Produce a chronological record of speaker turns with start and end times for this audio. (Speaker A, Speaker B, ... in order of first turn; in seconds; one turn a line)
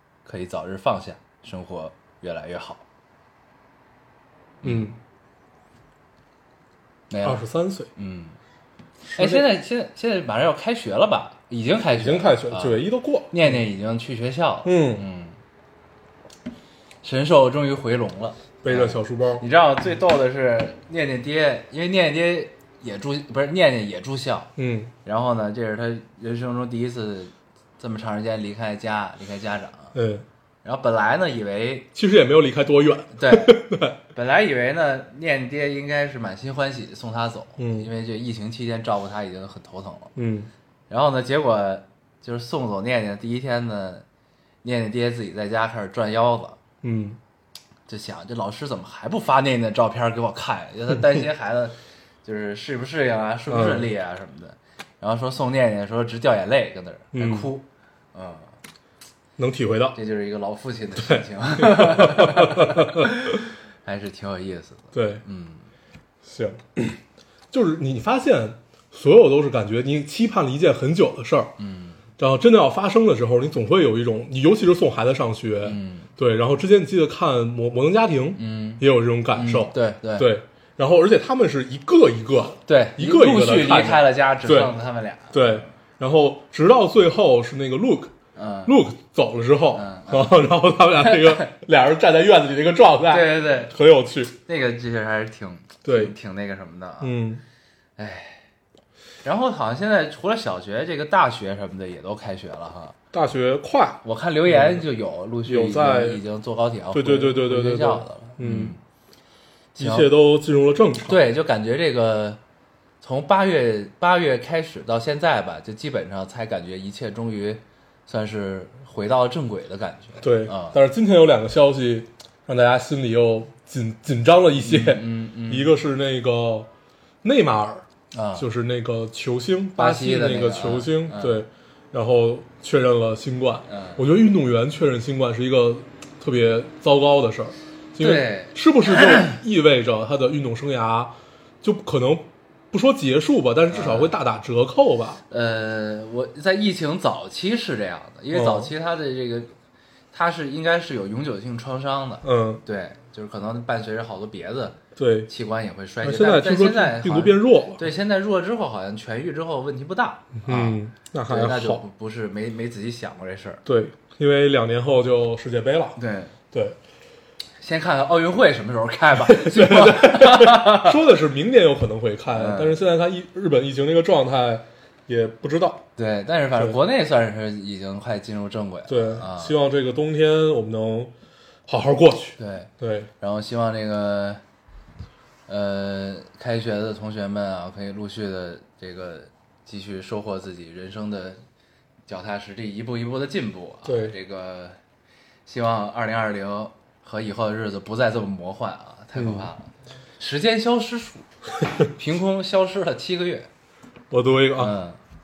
Speaker A: 0.2-2.8
Speaker A: 4.6-4.9
Speaker B: 4.6-4.9
Speaker A: 7.1-7.4
Speaker B: 7.2-7.9
Speaker A: 8.0-8.4
Speaker B: 9.1-9.4
Speaker A: 9.2-15.4
Speaker B: 11.9-13.6
Speaker B: 14.6-15.0
Speaker A: 17.0-24.5
Speaker B: 18.6-19.4
Speaker B: 24.6-24.9
Speaker A: 25.0-29.9
Speaker B: 29.9-30.2
Speaker A: 30.6-31.9
Speaker B: 31.9-34.0
Speaker A: 33.1-33.6
Speaker A: 34.1-40.1
Speaker B: 37.6-37.9
Speaker B: 40.1-40.5
Speaker A: 40.9-44.0
Speaker A: 44.6-46.6
Speaker B: 46.8-47.2
Speaker A: 47.9-58.5
Speaker B: 53.5-53.9
Speaker B: 57.1-57.5
Speaker B: 59.4-60.0
Speaker A: 59.9-65.7
Speaker B: 61.0-63.3
Speaker B: 64.9-65.2
Speaker B: 66.2-67.0
Speaker B: 67.5-71.5
Speaker A: 71.6-72.0
Speaker B: 72.2-84.7
Speaker A: 75.6-76.1
Speaker A: 78.3-80.3
Speaker A: 82.7-85.7
Speaker B: 85.3-88.1
Speaker A: 88.3-88.8
Speaker B: 88.7-94.3
Speaker A: 89.7-90.5
Speaker A: 91.0-91.5
Speaker A: 93.1-93.7
Speaker A: 94.5-97.1
Speaker B: 95.8-96.1
Speaker B: 97.0-97.4
Speaker A: 98.0-98.5
Speaker A: 99.2-103.0
Speaker B: 103.1-104.8
Speaker A: 104.0-108.8
Speaker B: 105.4-106.2
Speaker B: 106.9-108.7
Speaker A: 109.7-110.1
Speaker B: 109.8-111.2
Speaker A: 111.0-112.4
Speaker A: 113.0-120.8
Speaker B: 120.2-126.7
Speaker A: 124.6-125.7
Speaker B: 127.2-127.8
Speaker A: 128.1-128.5
Speaker B: 128.3-145.2
Speaker A: 129.8-131.4
Speaker A: 133.7-134.0
Speaker A: 138.0-139.3
Speaker A: 143.7-144.1
Speaker A: 145.3-149.5
Speaker B: 148.3-148.7
Speaker A: 150.1-154.8
Speaker B: 152.2-152.6
Speaker B: 154.9-155.3
Speaker A: 155.3-163.6
Speaker B: 156.0-157.8
Speaker B: 160.4-161.8
Speaker B: 163.7-166.0
Speaker A: 165.9-166.3
Speaker B: 166.5-166.8
Speaker A: 167.6-171.0
Speaker B: 169.1-175.8
Speaker A: 172.3-172.8
Speaker A: 175.9-179.5
Speaker B: 178.9-181.1
Speaker B: 181.7-183.1
Speaker A: 182.4-184.4
Speaker A: 185.5-191.4
Speaker A: 192.1-194.8
Speaker B: 193.8-194.1
Speaker A: 195.4-201.3
Speaker B: 199.1-199.5
Speaker A: 201.8-203.5
Speaker B: 204.1-204.8
Speaker A: 204.6-205.0